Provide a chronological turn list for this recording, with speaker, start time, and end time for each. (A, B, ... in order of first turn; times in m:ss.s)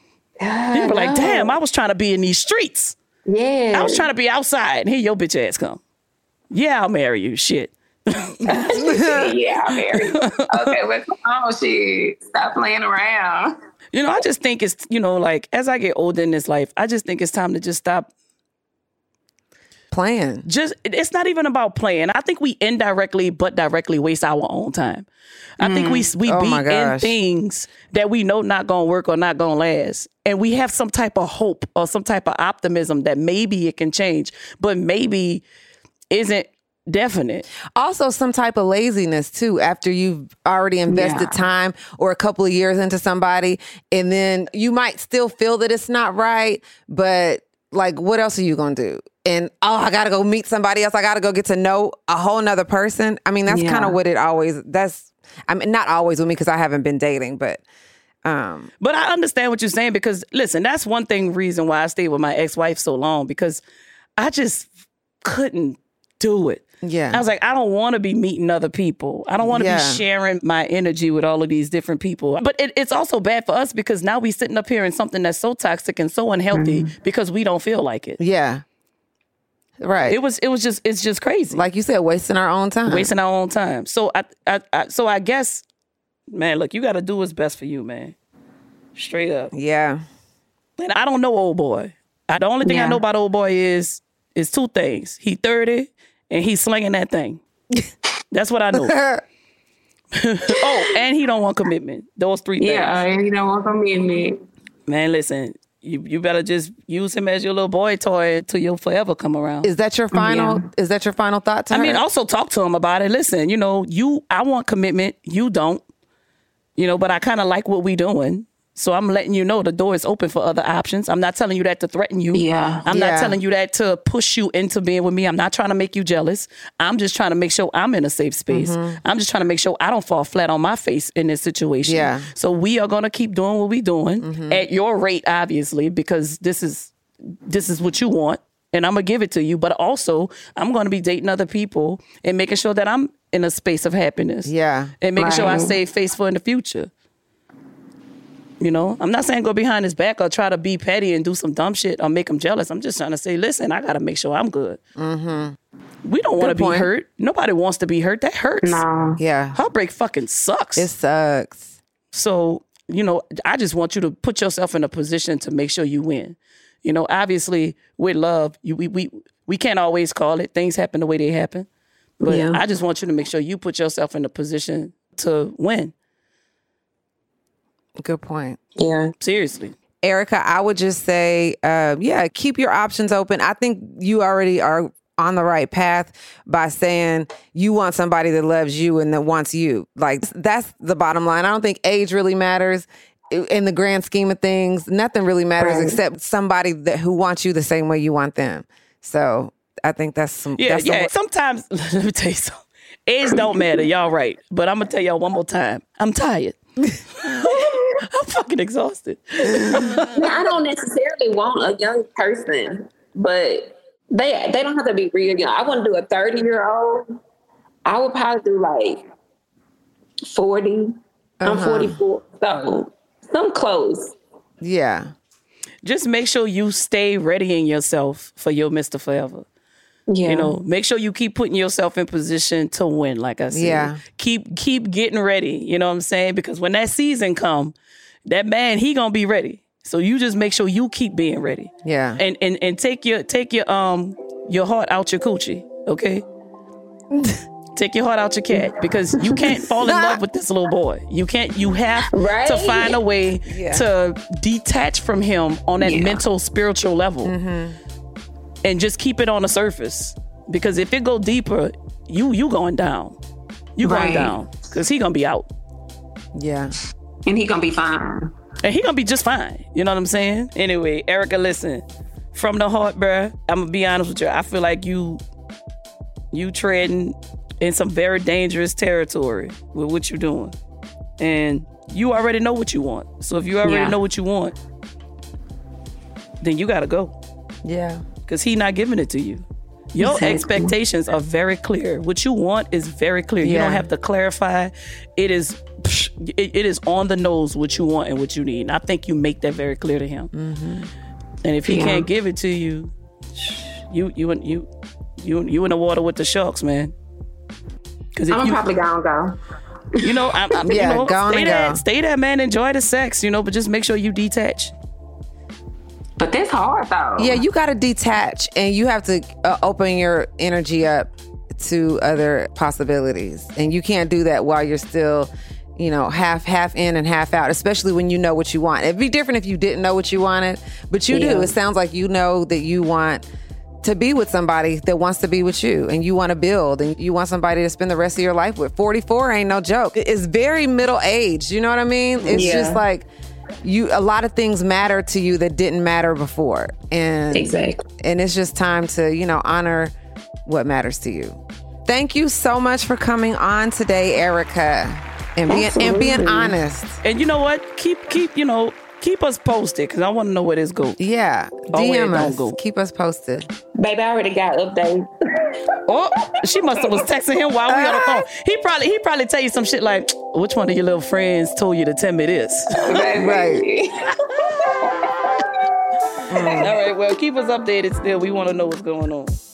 0:00.4-0:01.6 A
0:00.7-0:03.0 B
0:03.3-0:04.1 A
0:03.7-0:05.8 B
0:06.5-0:08.6 B
0:08.5-0:13.6 A
0:08.8-0:09.3 C
0:09.8-0:10.8 B
0:13.9-0:18.1 B
0:19.9-0:20.5 C
0:20.4-0:25.1 B
0:25.6-0:35.4 B
0:25.6-0:26.1 A
0:26.2-0:27.1 C
0:36.1-0:37.4 B
0:37.7-0:57.6 C
0:40.9-0:41.4 A
0:53.5-0:54.0 A
0:58.2-0:58.7 C
0:58.8-1:03.6 B
1:04.2-1:04.7 B
1:05.2-1:18.2 B
1:06.8-1:07.2 C
1:09.4-1:10.0 C
1:16.5-1:16.9 A
1:18.2-1:18.6 C
1:19.8-1:20.2 C
1:20.1-1:21.7 B
1:21.5-1:23.1 C
1:22.9-1:25.6 B
1:26.3-1:28.1 B
1:29.0-1:29.5 B
1:29.5-1:30.0 C
1:30.8-1:37.4 B
1:32.6-1:33.0 A
1:38.3-1:39.0 B
1:38.8-1:39.2 C
1:40.1-1:43.0 B
1:42.6-1:44.4 A
1:44.9-1:49.7 B
1:49.6-1:52.0 C
1:50.1-1:50.6 A
1:51.7-1:55.8 B
1:56.8-2:16.9 B
2:02.3-2:02.9 A
2:02.9-2:03.4 C
2:08.5-2:09.0 C
2:11.8-2:12.3 C
2:14.2-2:14.6 C
2:17.4-2:26.9 B
2:24.4-2:25.0 C
2:25.1-2:25.8 A
2:28.6-2:34.8 B
2:35.0-2:35.6 C
2:36.0-2:38.8 B
2:36.4-2:36.9 C
2:38.6-2:39.2 A
2:39.2-2:39.6 C
2:39.6-2:40.9 B
2:40.8-2:41.7 C
2:42.1-2:51.7 B
2:52.2-2:55.9 B
2:52.2-2:52.6 A
2:58.0-2:58.6 C
2:58.8-2:59.1 A
2:59.2-2:59.7 B
3:00.0-3:21.1 C
3:15.6-3:16.0 A
3:20.6-3:26.6 B
3:27.2-3:30.4 B
3:30.1-3:37.1 A
3:37.9-3:39.0 A
3:40.3-3:44.2 A
3:41.4-3:42.0 C
3:44.6-3:45.1 C
3:45.8-3:49.4 B
3:50.1-3:50.6 A
3:50.3-3:57.7 B
3:53.5-3:54.0 C
3:58.3-4:06.2 B
4:01.8-4:02.2 C
4:07.1-4:07.4 C
4:07.7-4:17.3 B
4:09.2-4:09.6 A
4:09.8-4:10.2 C
4:12.1-4:13.0 A
4:13.4-4:13.8 C
4:15.8-4:16.2 A
4:17.2-4:17.8 C
4:18.6-4:23.2 B
4:23.8-4:25.5 B
4:23.8-4:24.4 A
4:26.3-4:26.7 C
4:27.3-4:28.3 A
4:28.6-4:35.2 B
4:36.3-4:40.5 B
4:41.2-4:44.6 B
4:43.6-4:44.0 A
4:46.4-4:47.1 B
4:47.6-4:48.0 C
4:48.3-5:00.3 B
4:50.0-4:50.7 A
4:53.4-4:53.9 C
5:00.3-5:00.9 C
5:01.4-5:02.9 B
5:01.7-5:02.1 A
5:03.5-5:04.7 B
5:05.2-5:06.9 B
5:08.1-5:08.6 B
5:08.3-5:09.4 A
5:10.0-5:14.7 B
5:10.1-5:10.7 A
5:10.7-5:11.8 C
5:16.2-5:17.4 A
5:17.2-5:33.2 C
5:31.1-5:31.5 A
5:33.8-5:43.1 C
5:42.2-5:42.8 A
5:43.6-5:49.9 C
5:47.3-5:47.8 A
5:50.4-5:57.0 C
5:55.5-5:56.6 A
5:57.0-6:01.0 B
6:01.0-6:03.5 C
6:01.7-6:02.6 B
6:03.8-6:05.5 A
6:05.9-6:13.0 B
6:07.7-6:08.3 C
6:12.8-6:15.5 A
6:13.1-6:13.6 C
6:16.3-6:16.7 C
6:16.4-6:16.7 A
6:16.6-6:19.4 B